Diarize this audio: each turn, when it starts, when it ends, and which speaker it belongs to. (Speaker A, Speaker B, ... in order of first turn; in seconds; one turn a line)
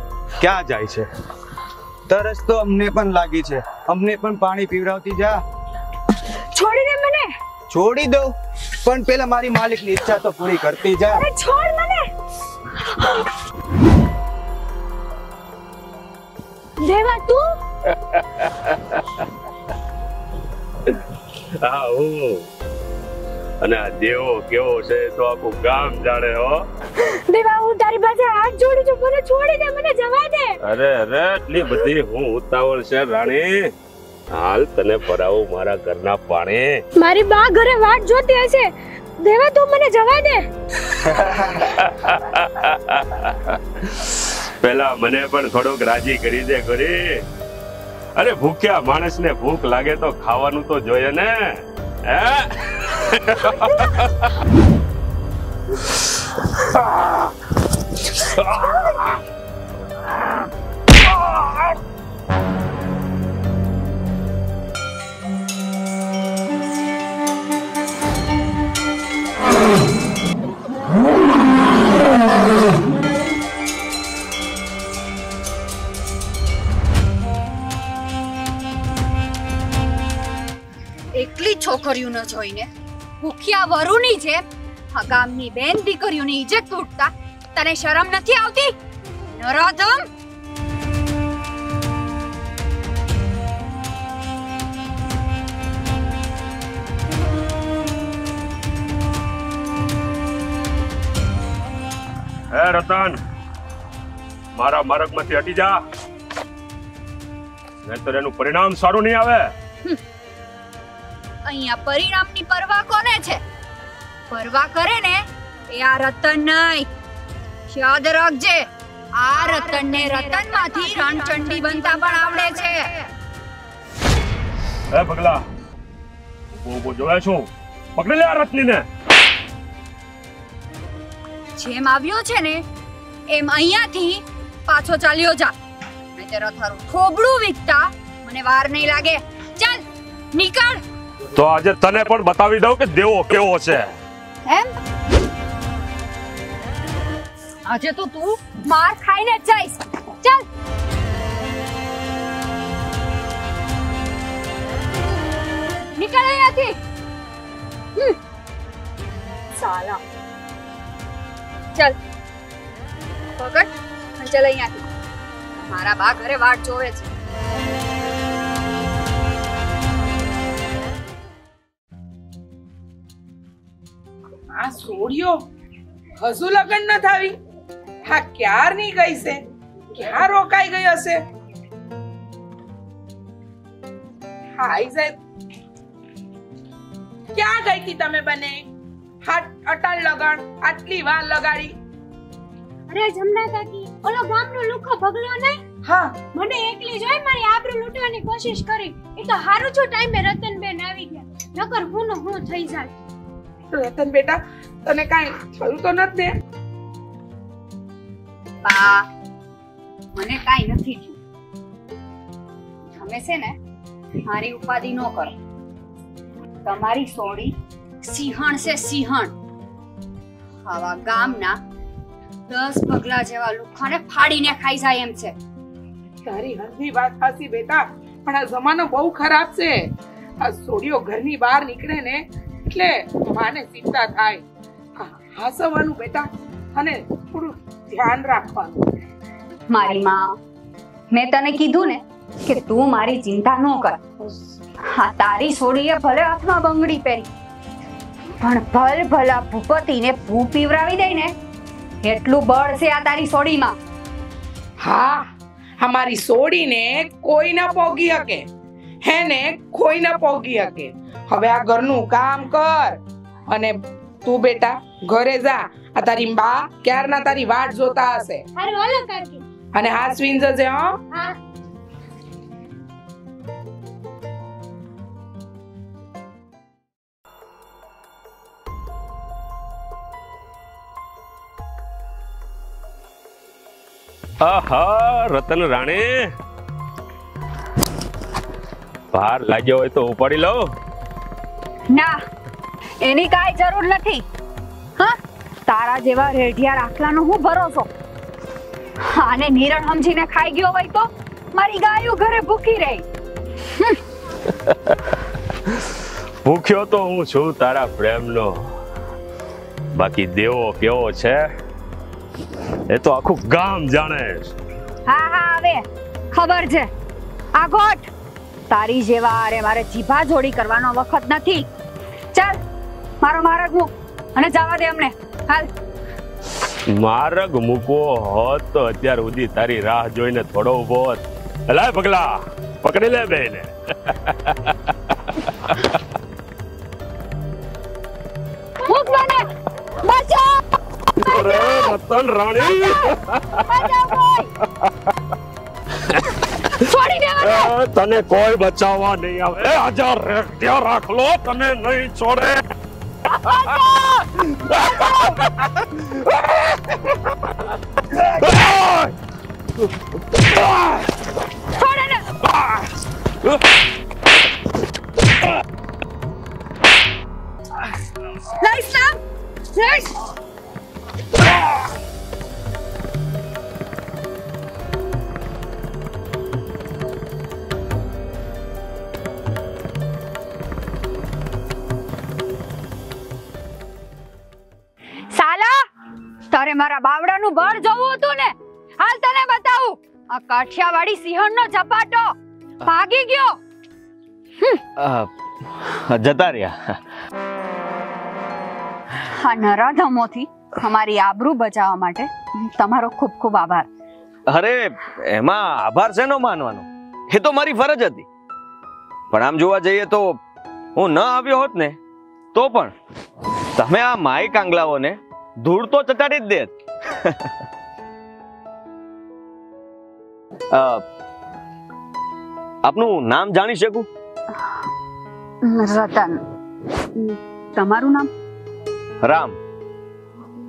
Speaker A: 0.4-1.1
Speaker A: 2.1-5.4
Speaker B: 6.5-7.3
Speaker A: 7.7-11.2
Speaker B: 11.1-12.1
Speaker B: 16.8-17.5
Speaker C: 18.3-19.0
Speaker C: 21.6-22.4
Speaker C: 23.6-26.6
Speaker B: 27.1-30.6
Speaker C: 30.6-33.7
Speaker C: 34.3-36.8
Speaker B: 37.0-40.5
Speaker C: 41.5-47.2
Speaker C: 48.1-54.3
Speaker C: 58.1-59.1
Speaker D: 81.1-82.7
Speaker D: 83.2-88.7
Speaker D: 89.3-90.1
Speaker C: 102.5-103.2
Speaker C: 104.5-105.8
Speaker C: 107.8-109.5
Speaker D: 111.5-113.4
Speaker D: 114.3-116.9
Speaker D: 117.7-123.1
Speaker C: 124.9-125.4
Speaker C: 126.6-128.8
Speaker D: 131.6-132.6
Speaker D: 133.3-135.5
Speaker D: 136.2-140.8
Speaker C: 141.3-143.9
Speaker D: 144.4-144.7
Speaker D: 147.7-150.4
Speaker D: 155.9-156.8
Speaker D: 159.5-160.0
Speaker D: 163.4-164.8
Speaker D: 165.6-167.1
Speaker E: 174.6-175.4
Speaker E: 176.2-177.3
Speaker E: 178.1-179.4
Speaker E: 179.9-181.2
Speaker E: 184.6-185.2
Speaker E: 187.3-188.7
Speaker E: 189.2-191.7
Speaker B: 192.9-195.6
Speaker E: 195.8-196.2
Speaker B: 196.2-202.9
Speaker E: 203.7-206.3
Speaker D: 208.6-209.1
Speaker D: 210.1-211.2
Speaker D: 213.0-213.6
Speaker D: 214.2-215.3
Speaker D: 216.6-219.3
Speaker D: 220.7-221.6
Speaker D: 222.5-225.3
Speaker E: 226.2-229.7
Speaker E: 230.4-234.4
Speaker E: 235.0-238.8
Speaker D: 239.7-240.3
Speaker D: 241.1-244.0
Speaker D: 244.8-247.3
Speaker D: 248.4-251.3
Speaker D: 252.0-253.8
Speaker E: 254.8-255.2
Speaker E: 255.8-258.4
Speaker E: 259.0-268.4
Speaker B: 268.5-269.4
Speaker E: 269.7-271.0
Speaker B: 271.1-271.4
Speaker C: 284.4-286.3
Speaker C: 289.1-290.7
Speaker D: 291.9-292.2
Speaker D: 293.0-294.2
Speaker D: 295.0-297.9
Speaker D: 299.0-303.0
Speaker D: 303.7-304.0
Speaker C: 304.6-304.9
Speaker C: 306.4-308.7
Speaker C: 309.9-311.5
Speaker C: 312.9-314.5
Speaker D: 315.1-316.9
Speaker D: 317.6-318.1
Speaker D: 318.7-321.6
Speaker D: 322.3-322.6
Speaker D: 323.2-325.7
Speaker C: 326.9-335.9
Speaker D: 338.8-339.4
Speaker D: 340.0-340.6
Speaker C: 341.2-343.6
Speaker D: 341.3-341.9
Speaker D: 342.7-343.1
Speaker D: 343.7-344.5
Speaker D: 346.8-347.7
Speaker C: 347.4-352.6
Speaker C: 353.4-357.1
Speaker C: 358.1-359.1
Speaker C: 360.4-361.0
Speaker D: 361.8-362.2
Speaker D: 368.6-369.1
Speaker D: 369.7-370.1
Speaker D: 385.3-385.9
Speaker D: 386.5-393.6
Speaker F: 395.0-395.3
Speaker F: 395.8-397.0
Speaker D: 399.2-403.9
Speaker F: 404.5-408.3
Speaker F: 409.3-410.4
Speaker F: 410.9-412.0
Speaker F: 412.5-412.9
Speaker F: 413.8-417.4
Speaker F: 420.7-421.0
Speaker F: 422.8-424.1
Speaker D: 425.6-426.4
Speaker D: 427.1-428.3
Speaker F: 429.2-429.6